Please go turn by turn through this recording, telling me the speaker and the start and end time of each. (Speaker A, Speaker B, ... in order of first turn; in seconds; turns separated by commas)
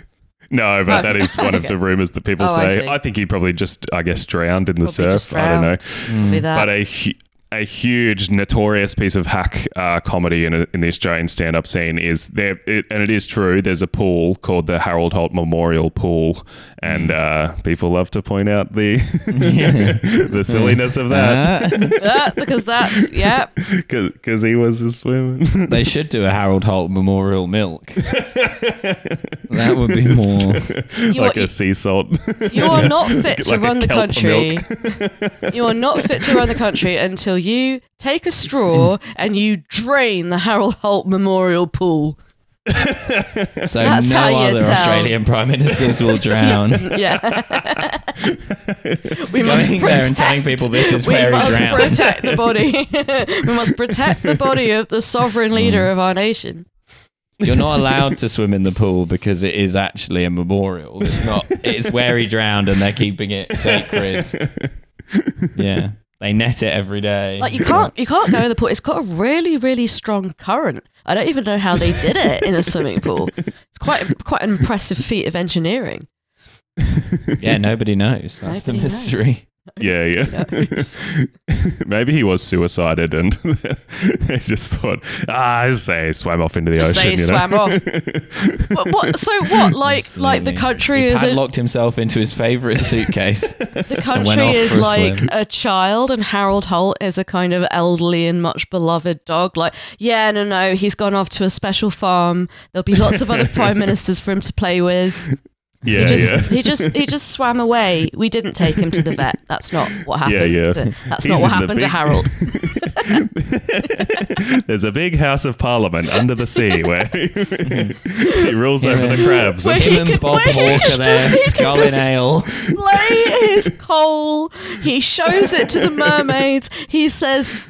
Speaker A: 0.5-22.3, Speaker B: 0.9-1.8, Speaker B: 2.4-3.0, Speaker B: 4.8-6.7, Speaker C: 6.0-6.4, Speaker C: 16.8-17.1, Speaker C: 19.3-22.0, Speaker B: 22.0-23.5, Speaker A: 22.8-25.8, Speaker C: 25.7-28.0, Speaker A: 28.2-29.2, Speaker C: 29.5-30.7, Speaker A: 29.8-35.5, Speaker B: 31.1-31.5, Speaker B: 32.5-34.8, Speaker B: 35.5-42.2, Speaker A: 36.2-36.7, Speaker A: 42.8-43.5, Speaker C: 43.6-46.9, Speaker B: 43.8-45.1, Speaker B: 46.4-48.2, Speaker A: 48.7-48.9, Speaker B: 49.2-56.6, Speaker C: 49.4-52.0, Speaker A: 51.8-52.5, Speaker A: 53.6-54.7, Speaker C: 55.5-55.9, Speaker A: 57.4-58.0, Speaker C: 57.4-64.4, Speaker A: 61.1-61.9, Speaker A: 63.6-64.7, Speaker C: 65.5-67.9, Speaker B: 67.4-76.1, Speaker C: 77.4-79.4, Speaker B: 78.4-81.0, Speaker A: 79.8-89.7, Speaker B: 86.7-87.8, Speaker B: 88.7-91.4, Speaker C: 89.9-95.3, Speaker B: 93.9-105.2, Speaker A: 103.1-103.9, Speaker A: 105.8-106.9, Speaker C: 105.9-106.5, Speaker B: 106.0-113.2, Speaker A: 110.2-121.4, Speaker C: 117.7-117.9, Speaker C: 118.8-122.6, Speaker B: 119.3-127.5, Speaker A: 122.9-123.4